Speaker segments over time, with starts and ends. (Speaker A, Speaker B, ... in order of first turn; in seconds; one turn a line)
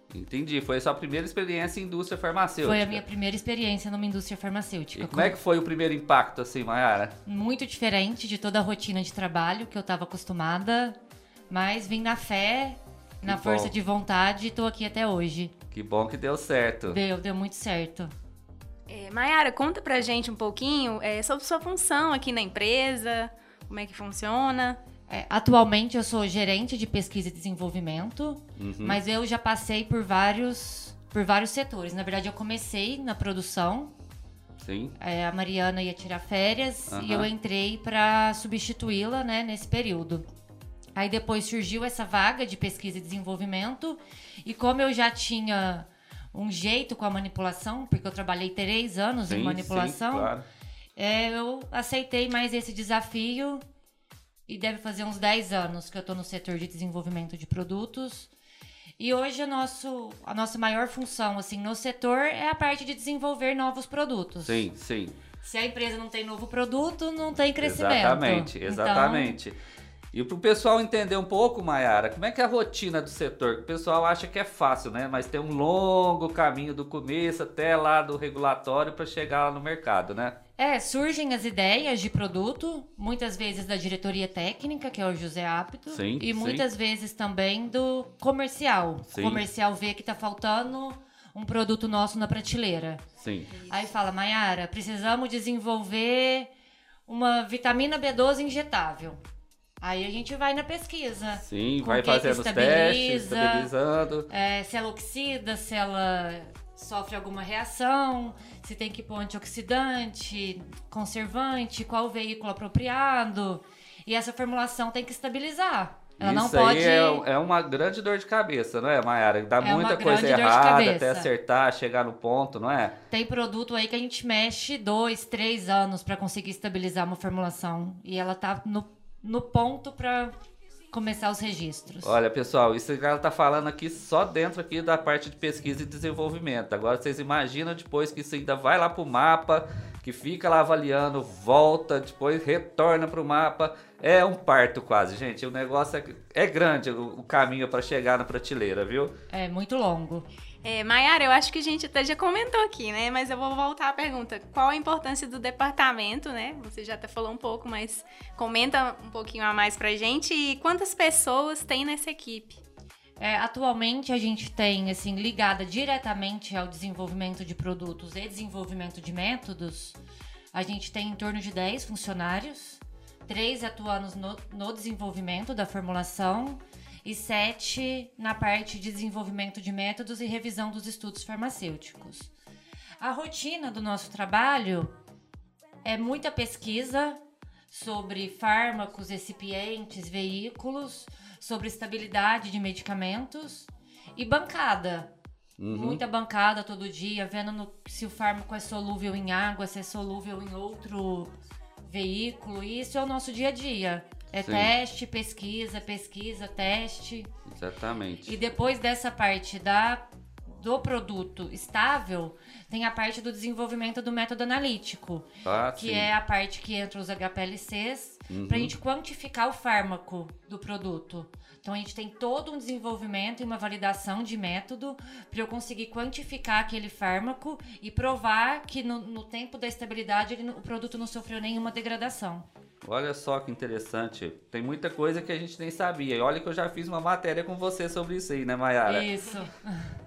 Speaker A: 0.1-3.0
Speaker B: 2.6-5.3
Speaker A: 4.9-7.1
Speaker B: 7.2-11.0
Speaker B: 11.5-15.5
Speaker A: 13.2-13.7
Speaker A: 15.7-17.0
Speaker B: 16.9-18.1
Speaker C: 18.9-24.8
Speaker B: 25.1-33.9
Speaker A: 28.6-29.0
Speaker A: 34.6-34.9
Speaker B: 35.0-40.2
Speaker A: 36.9-37.3
Speaker B: 41.0-50.3
Speaker A: 49.3-50.4
Speaker B: 51.0-53.6
Speaker B: 54.5-58.3
Speaker B: 59.0-64.7
Speaker A: 64.4-65.2
Speaker B: 65.4-69.4
Speaker A: 67.6-69.5
Speaker A: 70.1-80.4
Speaker B: 80.6-93.0
Speaker A: 85.9-86.6
Speaker A: 89.1-89.4
Speaker A: 93.2-93.5
Speaker B: 93.7-96.5
Speaker B: 97.1-99.2
Speaker B: 99.8-103.7
Speaker A: 101.4-104.3
Speaker B: 104.3-117.2
Speaker A: 116.2-123.0
Speaker B: 119.6-121.3
Speaker B: 123.1-130.3
Speaker B: 130.9-132.2
Speaker A: 132.0-149.1
Speaker B: 149.3-150.2
Speaker C: 150.6-162.6
Speaker B: 163.2-170.0
Speaker B: 170.5-182.3
Speaker B: 183.0-184.9
Speaker B: 185.8-187.2
Speaker B: 187.7-195.1
Speaker A: 195.6-196.0
Speaker B: 195.7-201.3
Speaker B: 201.8-207.3
Speaker A: 204.4-204.7
Speaker A: 207.5-208.3
Speaker B: 208.2-232.4
Speaker A: 215.4-216.1
Speaker A: 218.3-218.7
Speaker A: 232.8-239.1
Speaker B: 238.8-239.9